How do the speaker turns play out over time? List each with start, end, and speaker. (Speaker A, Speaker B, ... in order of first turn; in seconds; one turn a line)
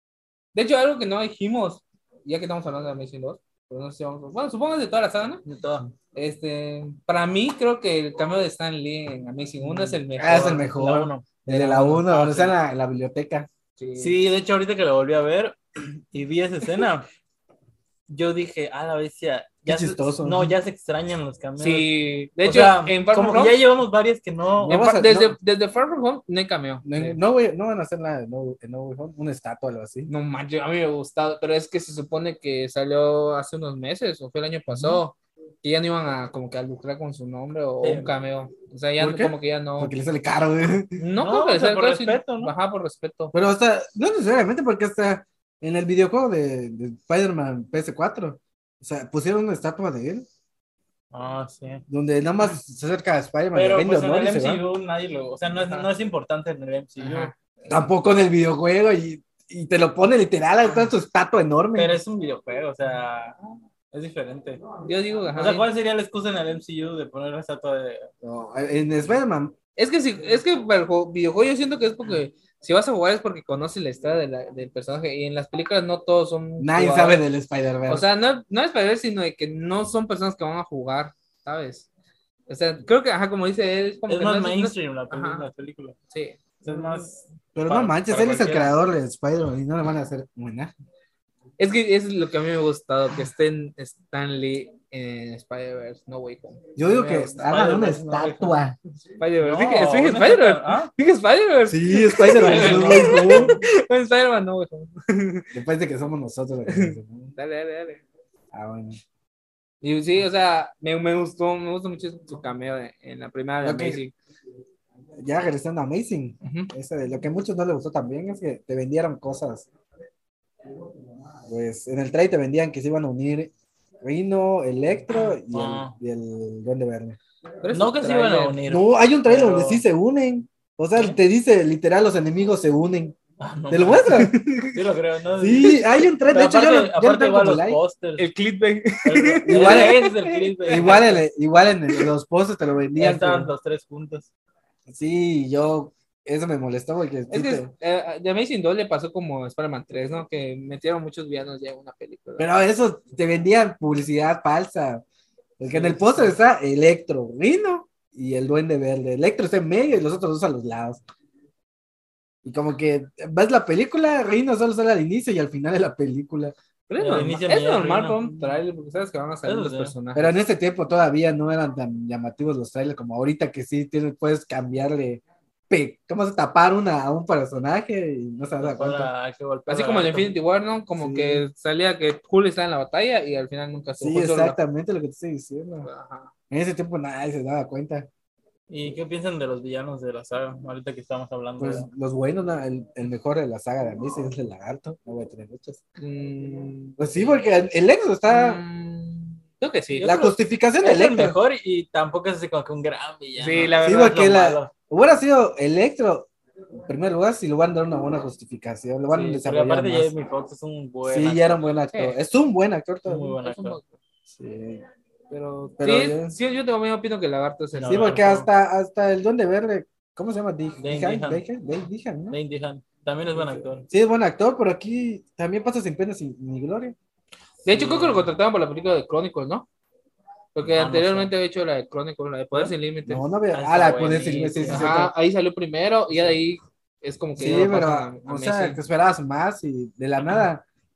Speaker A: 0.5-5.4
Speaker B: 5.4-5.9
Speaker A: 6.1-10.6
Speaker B: 9.6-12.6
Speaker C: 10.2-13.5
Speaker A: 13.8-14.2
Speaker B: 14.0-17.1
Speaker B: 18.1-21.9
Speaker C: 19.7-20.5
Speaker A: 21.6-23.6
Speaker B: 22.4-24.8
Speaker C: 24.6-25.4
Speaker A: 24.6-26.9
Speaker C: 26.8-30.1
Speaker A: 30.1-40.0
Speaker C: 34.7-35.0
Speaker B: 37.8-38.1
Speaker C: 39.0-41.0
Speaker A: 41.0-43.3
Speaker B: 41.2-42.5
Speaker C: 43.3-50.2
Speaker B: 51.1-51.8
Speaker C: 51.9-54.6
Speaker B: 53.5-57.3
Speaker A: 55.5-55.9
Speaker A: 57.0-57.3
Speaker C: 57.7-62.0
Speaker B: 61.7-63.4
Speaker B: 63.9-64.6
Speaker A: 64.8-65.7
Speaker B: 65.3-68.1
Speaker C: 68.2-69.5
Speaker A: 69.8-77.2
Speaker C: 76.6-78.0
Speaker A: 77.9-81.9
Speaker A: 82.5-85.5
Speaker B: 84.1-85.9
Speaker A: 86.1-86.4
Speaker B: 86.6-88.8
Speaker C: 87.5-90.7
Speaker A: 91.6-96.7
Speaker C: 96.8-98.8
Speaker B: 96.9-98.6
Speaker A: 99.2-105.5
Speaker B: 99.4-100.9
Speaker C: 101.7-103.6
Speaker B: 102.3-103.6
Speaker C: 105.5-107.3
Speaker A: 106.7-108.0
Speaker C: 108.5-109.0
Speaker A: 109.8-114.1
Speaker C: 113.6-114.0
Speaker C: 115.2-119.7
Speaker A: 116.4-116.7
Speaker C: 121.5-123.5
Speaker C: 124.0-127.2
Speaker B: 125.5-126.0
Speaker A: 127.6-128.6
Speaker B: 127.7-129.8
Speaker C: 128.7-133.2
Speaker B: 133.4-134.2
Speaker C: 133.7-134.4
Speaker A: 134.1-134.7
Speaker B: 134.7-138.3
Speaker C: 135.4-137.8
Speaker A: 138.2-141.0
Speaker B: 139.0-141.2
Speaker C: 139.5-140.1
Speaker C: 140.6-143.5
Speaker B: 142.9-144.3
Speaker C: 144.9-147.7
Speaker A: 147.3-152.5
Speaker C: 152.4-155.0
Speaker C: 155.6-161.0
Speaker B: 155.7-156.3
Speaker C: 162.4-166.5
Speaker A: 166.9-170.3
Speaker B: 167.0-168.4
Speaker B: 169.4-169.9
Speaker C: 170.1-179.1
Speaker B: 178.6-180.3
Speaker A: 179.7-184.6
Speaker C: 180.9-181.4
Speaker C: 184.0-185.9
Speaker A: 185.8-186.3
Speaker C: 186.5-188.1
Speaker B: 188.7-191.9
Speaker C: 191.6-195.8
Speaker A: 196.0-197.0
Speaker C: 197.0-198.6
Speaker A: 198.3-200.2
Speaker B: 200.0-204.7
Speaker C: 200.0-201.4
Speaker A: 203.4-204.2
Speaker C: 203.8-206.3
Speaker C: 206.8-210.1
Speaker B: 209.1-211.8
Speaker C: 211.0-213.3
Speaker B: 213.1-213.8
Speaker A: 213.4-213.9
Speaker C: 214.3-214.8
Speaker A: 215.3-218.2
Speaker C: 215.8-216.3
Speaker B: 217.7-218.5
Speaker C: 217.8-222.4
Speaker B: 220.8-221.4
Speaker B: 222.3-223.9
Speaker C: 223.5-226.9
Speaker A: 227.6-229.7
Speaker B: 227.7-228.3
Speaker A: 230.5-233.2
Speaker B: 230.7-231.3
Speaker C: 233.1-235.1
Speaker B: 233.5-235.0
Speaker A: 234.7-238.8
Speaker C: 237.4-240.6